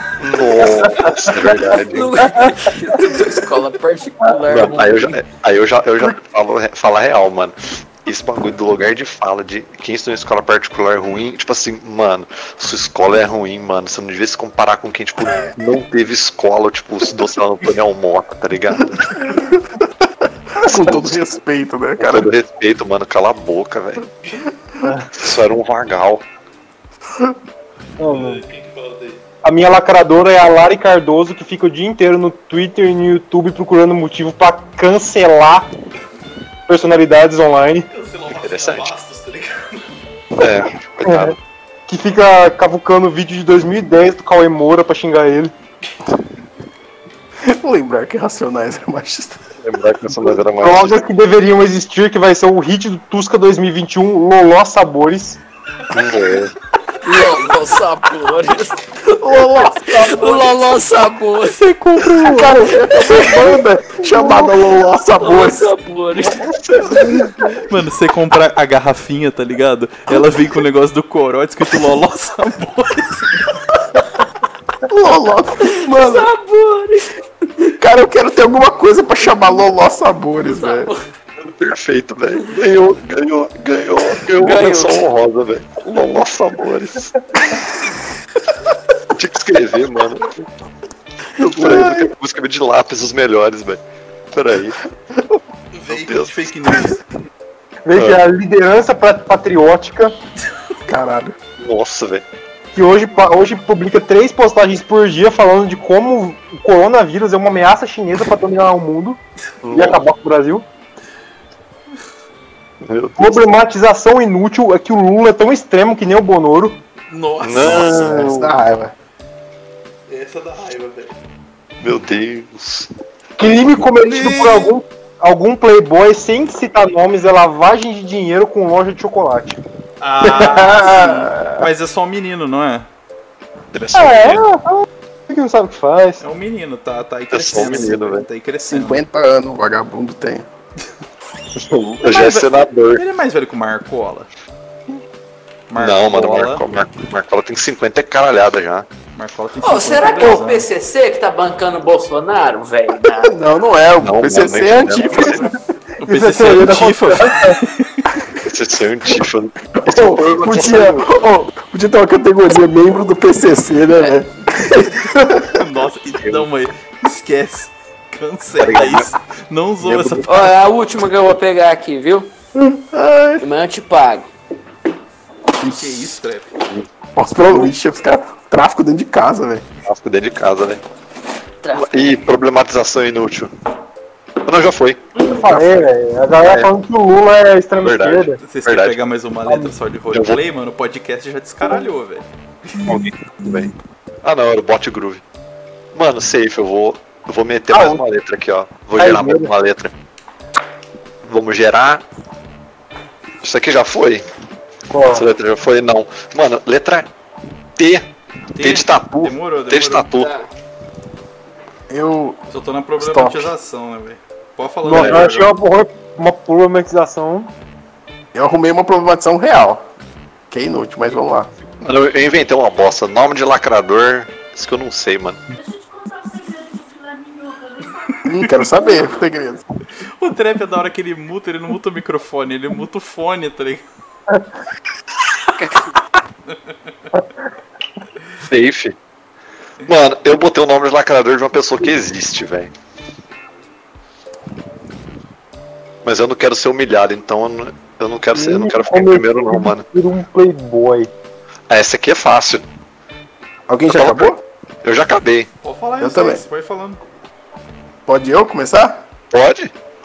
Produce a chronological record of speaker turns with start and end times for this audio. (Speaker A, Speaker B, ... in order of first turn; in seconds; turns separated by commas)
Speaker A: 0.2-2.3, Speaker B: 1.5-5.2, Speaker A: 4.4-19.3, Speaker C: 19.2-22.3, Speaker A: 20.6-21.2, Speaker A: 22.0-24.1, Speaker A: 25.1-26.2, Speaker D: 28.0-28.4, Speaker E: 28.1-29.2, Speaker D: 29.4-35.7, Speaker D: 36.7-37.9, Speaker E: 37.9-39.9, Speaker A: 38.3-38.9, Speaker A: 40.4-41.4, Speaker D: 41.0-41.3, Speaker D: 41.9-45.5, Speaker C: 47.4-49.4, Speaker A: 49.6-51.0, Speaker D: 50.2-55.4, Speaker A: 55.9-56.5, Speaker B: 57.0-61.6, Speaker C: 59.0-60.6, Speaker E: 61.6-62.6, Speaker D: 62.0-62.5, Speaker C: 62.0-65.7, Speaker B: 62.9-63.5, Speaker A: 64.2-64.4, Speaker B: 65.2-66.4, Speaker A: 66.3-67.7, Speaker E: 67.7-73.6, Speaker C: 74.9-76.3, Speaker B: 75.6-77.1, Speaker C: 77.6-80.9, Speaker B: 80.4-81.0, Speaker A: 81.4-87.1, Speaker B: 84.3-85.1, Speaker A: 89.1-90.5, Speaker A: 91.4-93.8, Speaker C: 91.4-92.1, Speaker A: 94.3-94.8, Speaker E: 95.7-97.1, Speaker A: 95.9-96.5, Speaker D: 97.8-100.2, Speaker A: 97.9-98.2, Speaker C: 100.9-101.4, Speaker A: 101.6-102.2, Speaker D: 102.8-110.7, Speaker A: 109.6-110.0, Speaker A: 112.8-113.6, Speaker D: 113.2-116.8, Speaker E: 117.1-118.1, Speaker A: 117.4-118.3, Speaker C: 117.7-118.9, Speaker D: 118.2-118.4, Speaker E: 120.1-121.2, Speaker A: 121.8-122.9, Speaker D: 123.4-129.6, Speaker E: 124.0-124.8, Speaker E: 130.0-132.9, Speaker C: 130.2-131.7, Speaker D: 130.4-130.8, Speaker A: 133.7-134.5, Speaker D: 133.9-136.2, Speaker E: 136.2-139.0, Speaker A: 137.3-138.2, Speaker C: 138.6-140.4, Speaker A: 141.6-143.0, Speaker E: 142.0-144.3, Speaker E: 145.7-146.6, Speaker A: 145.8-148.9, Speaker E: 149.1-150.7, Speaker B: 149.6-153.3, Speaker C: 153.1-155.5, Speaker A: 154.0-155.5, Speaker E: 156.0-158.2, Speaker D: 156.0-157.6, Speaker A: 158.4-161.1, Speaker C: 159.8-165.5, Speaker E: 165.5-170.5, Speaker A: 168.6-169.1, Speaker A: 169.8-170.3, Speaker B: 170.3-172.3, Speaker C: 172.5-173.4, Speaker B: 173.4-174.3, Speaker C: 175.6-176.2, Speaker E: 175.6-176.5, Speaker C: 177.2-179.6, Speaker A: 179.8-180.8, Speaker B: 181.6-182.2, Speaker A: 181.7-183.5, Speaker A: 184.4-185.8, Speaker D: 185.2-188.4, Speaker A: 186.4-186.7, Speaker A: 187.8-189.0, Speaker E: 188.4-192.7, Speaker A: 190.1-190.4, Speaker A: 192.8-193.7, Speaker A: 194.2-195.2, Speaker A: 195.9-199.9, Speaker D: 197.7-198.0, Speaker D: 198.9-199.5, Speaker A: 201.2-202.0, Speaker A: 203.4-204.2, Speaker D: 204.9-205.3, Speaker A: 205.1-207.1, Speaker A: 207.8-208.1, Speaker E: 208.5-210.1, Speaker A: 208.6-210.3, Speaker B: 210.2-210.5, Speaker C: 211.9-212.4, Speaker E: 212.5-215.5, Speaker C: 213.0-213.5, Speaker D: 214.8-217.5, Speaker A: 214.9-215.3, Speaker C: 218.3-219.8, Speaker C: 220.5-221.5, Speaker A: 221.8-225.4, Speaker B: 225.6-228.0, Speaker E: 228.1-228.7, Speaker C: 228.2-229.6, Speaker E: 230.1-233.8, Speaker B: 235.5-235.9, Speaker A: 238.4-238.9, Speaker A: 239.8-242.7, Speaker A: 246.0-249.8, Speaker D: 248.3-251.1, Speaker A: 251.7-252.6, Speaker C: 253.7-254.4, Speaker A: 253.9-255.5, Speaker E: 255.6-257.0, Speaker C: 256.0-256.4, Speaker C: 258.1-259.1, Speaker A: 259.3-259.7